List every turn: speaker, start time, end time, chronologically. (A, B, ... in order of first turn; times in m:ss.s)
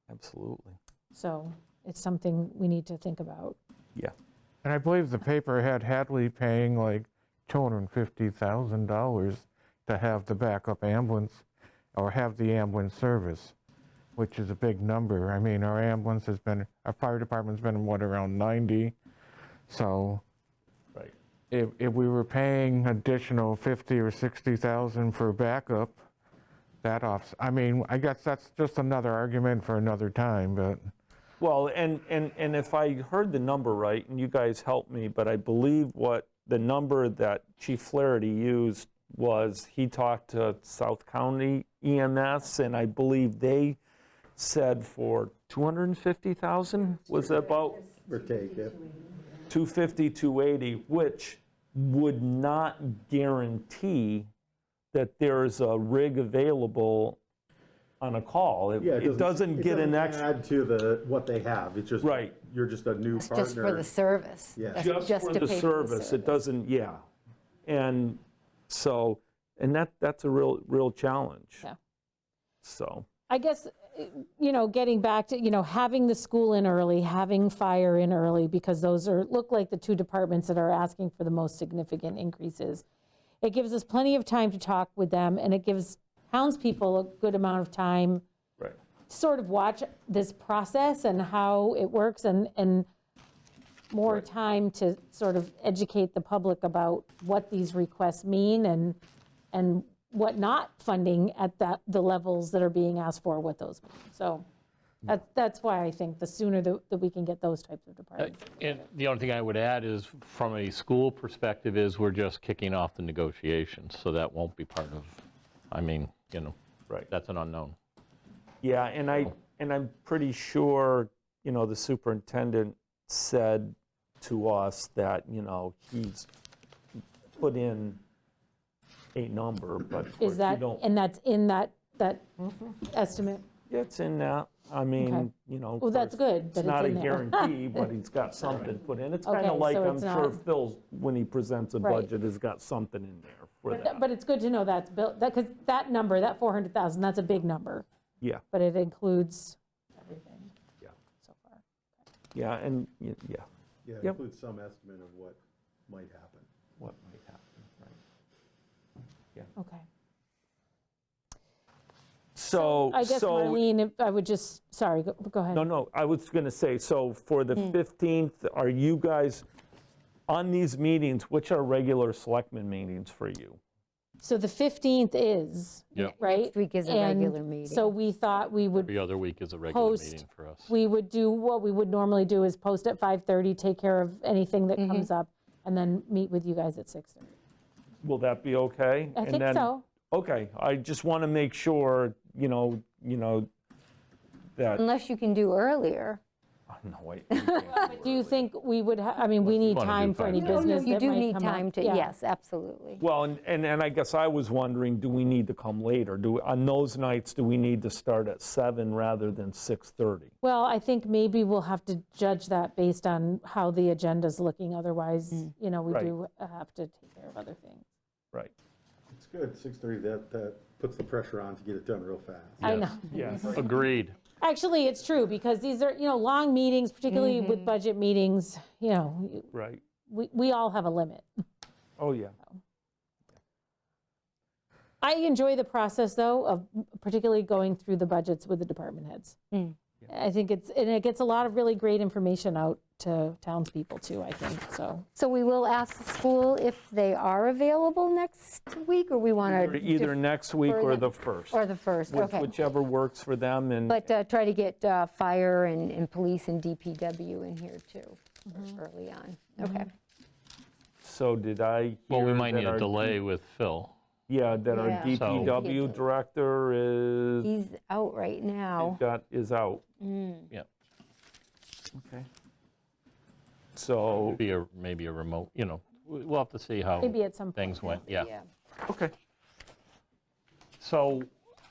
0:00.1-0:00.8 A
0:01.1-0:03.6 B
0:04.6-0:13.6 C
0:14.2-0:19.0 C
0:19.7-0:20.2 C
0:21.5-0:26.0 C
0:26.8-0:30.9 C
0:31.4-0:43.8 A
0:44.4-0:47.9 A
0:48.0-0:48.8 D
0:49.5-0:54.3 A
0:54.9-0:57.2 A
0:58.0-1:00.3 A
0:58.8-1:03.9 D
1:02.0-1:02.4 A
1:03.2-1:06.4 E
1:04.5-1:05.1 D
1:04.8-1:07.0 A
1:07.7-1:11.7 A
1:12.6-1:13.1 A
1:13.3-1:22.8 B
1:23.4-1:28.2 B
1:29.1-1:32.9 B
1:33.9-1:39.0 B
1:39.5-1:44.5 B
1:45.0-1:48.8 B
1:48.2-1:56.6 F
1:57.1-1:57.8 F
1:58.6-2:06.3 A
2:07.4-2:08.0 A
2:09.2-2:10.8 A
2:10.2-2:13.4 B
2:13.7-2:24.1 A
2:15.0-2:15.3 B
2:15.8-2:17.8 B
2:19.3-2:20.4 B
2:21.8-2:22.1 B
2:23.7-2:27.9 B
2:28.5-2:30.5 B
2:31.2-2:31.6 B
2:32.3-2:33.5 A
2:33.8-2:36.5 D
2:36.8-2:38.0 A
2:39.6-2:39.8 B
2:42.4-2:43.6 A
2:42.5-2:45.6 B
2:45.5-2:49.4 A
2:50.3-2:53.6 A
2:54.2-2:59.0 B
2:56.0-2:58.0 E
2:58.8-3:00.7 F
2:59.7-3:07.4 B
3:04.8-3:05.1 E
3:08.0-3:13.5 A
3:09.2-3:09.8 B
3:14.6-3:14.8 A
3:14.8-3:16.2 E
3:16.7-3:18.5 A
3:17.3-3:17.7 E
3:17.7-3:22.1 B
3:19.5-3:20.8 F
3:20.4-3:23.0 E
3:23.0-3:30.3 A
3:30.4-3:37.9 B
3:39.1-3:43.9 D
3:42.6-3:43.0 F
3:42.6-3:43.7 B
3:43.1-3:43.6 A
3:43.5-3:44.2 F
3:44.4-3:49.5 B
3:47.1-3:47.8 E
3:49.5-3:49.8 A
3:50.1-3:51.3 B
3:52.0-3:52.4 A
3:55.0-3:59.4 B
3:59.5-3:59.8 E
4:00.1-4:05.1 B
4:05.2-4:12.6 E
4:09.5-4:11.6 A
4:12.1-4:14.0 A
4:13.9-4:19.9 E
4:21.0-4:23.2 A
4:22.1-4:23.9 F
4:24.3-4:27.5 A
4:24.7-4:26.1 E
4:25.2-4:25.6 F
4:27.4-4:29.0 E
4:28.8-4:29.9 A
4:30.0-4:30.5 E
4:32.0-4:32.3 A
4:33.8-4:34.4 A
4:34.2-4:38.3 F
4:37.0-4:38.0 B
4:38.1-4:38.5 E
4:38.9-4:39.1 A
4:40.8-4:41.3 F